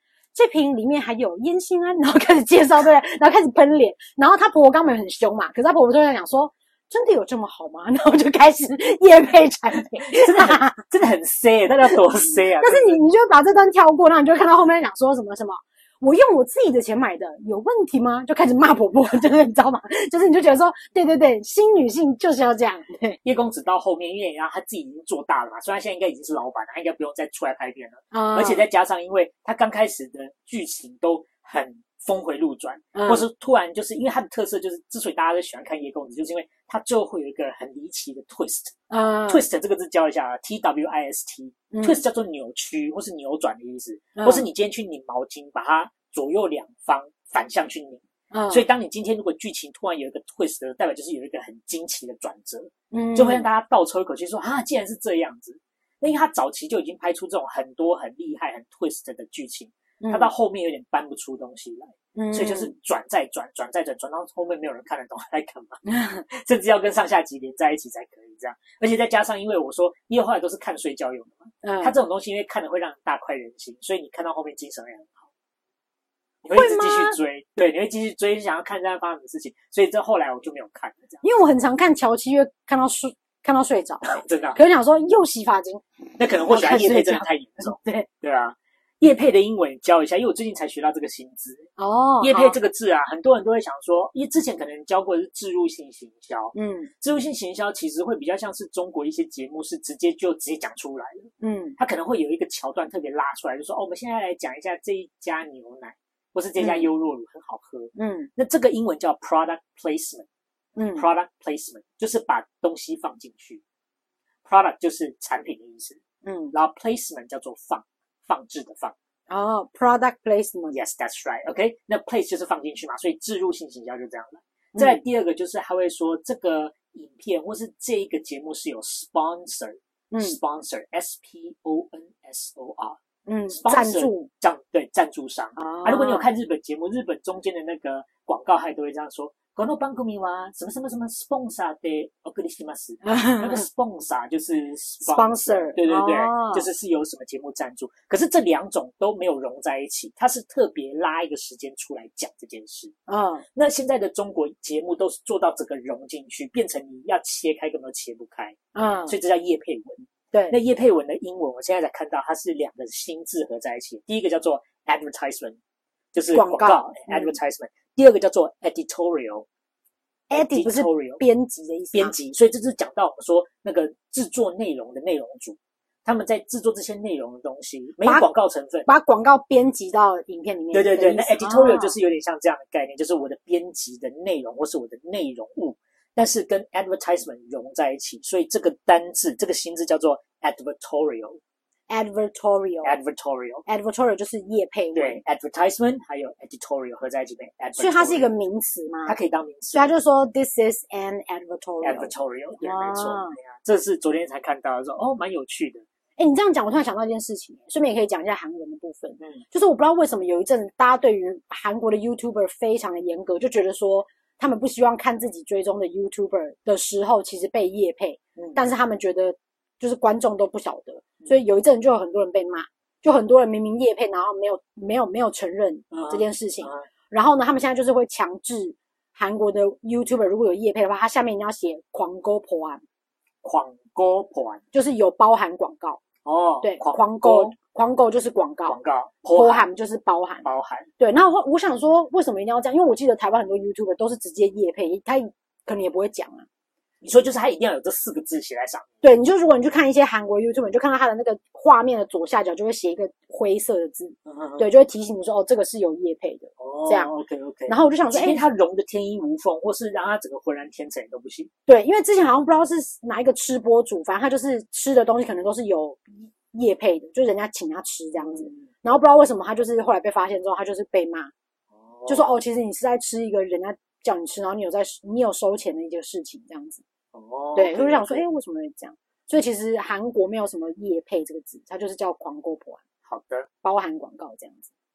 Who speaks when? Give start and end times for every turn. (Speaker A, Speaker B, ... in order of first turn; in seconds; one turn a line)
Speaker A: 0.3-10.8
Speaker B: 10.1-13.0
Speaker A: 12.6-23.2
Speaker B: 23.2-38.8
Speaker A: 28.1-28.6
Speaker A: 32.9-33.3
Speaker A: 38.9-39.4
Speaker B: 39.3-75.3
Speaker A: 41.7-42.0
Speaker A: 44.1-44.5
Speaker A: 48.3-48.6
Speaker A: 52.9-53.5
Speaker A: 60.0-60.3
Speaker A: 62.1-62.7
Speaker A: 65.9-66.2
Speaker A: 71.6-71.9
Speaker B: 76.4-81.2
Speaker A: 76.5-77.2
Speaker A: 81.2-85.8
Speaker B: 84.1-84.6
Speaker B: 86.2-91.7
Speaker A: 86.4-88.1
Speaker A: 91.8-92.6
Speaker B: 92.2-110.3
Speaker A: 96.5-96.9
Speaker A: 101.4-101.8
Speaker A: 106.6-106.9
Speaker A: 108.0-108.3
Speaker A: 110.8-111.1
Speaker B: 111.0-113.6
Speaker B: 114.5-116.0
Speaker A: 116.2-116.5
Speaker B: 116.5-118.9
Speaker A: 119.3-120.8
Speaker B: 120.7-133.0
Speaker A: 124.8-125.0
Speaker A: 130.1-130.4
Speaker A: 133.3-134.3
Speaker B: 133.5-152.9
Speaker A: 135.6-136.3
Speaker A: 143.0-143.6
Speaker A: 145.1-146.7
Speaker A: 153.1-153.4
Speaker B: 153.6-165.6
Speaker A: 158.8-159.1
Speaker B: 166.1-169.5
Speaker A: 166.3-167.4
Speaker A: 170.3-172.1
Speaker B: 170.3-171.2
Speaker B: 171.9-178.9
Speaker A: 178.9-181.9
Speaker B: 180.7-191.4
Speaker A: 191.9-193.0
Speaker B: 192.8-193.6
Speaker A: 193.7-195.2
Speaker B: 194.9-198.3
Speaker A: 197.8-199.1
Speaker B: 199.1-199.9
Speaker A: 199.7-203.4
Speaker B: 201.8-205.8
Speaker A: 206.2-232.8
Speaker B: 225.9-226.8
Speaker B: 233.4-234.6
Speaker A: 234.7-236.0
Speaker B: 236.2-237.6
Speaker A: 236.6-238.8
Speaker B: 238.7-239.7
Speaker A: 239.3-240.5
Speaker B: 240.4-240.9
Speaker A: 241.0-246.5
Speaker B: 247.0-248.9
Speaker A: 249.0-257.1
Speaker B: 254.3-254.7
Speaker B: 256.6-261.5
Speaker A: 257.7-258.4
Speaker A: 261.7-271.3
Speaker B: 268.2-268.7
Speaker B: 271.8-272.4
Speaker A: 272.1-276.8
Speaker B: 277.1-278.2
Speaker A: 277.6-282.8
Speaker B: 283.1-283.5
Speaker A: 283.6-284.7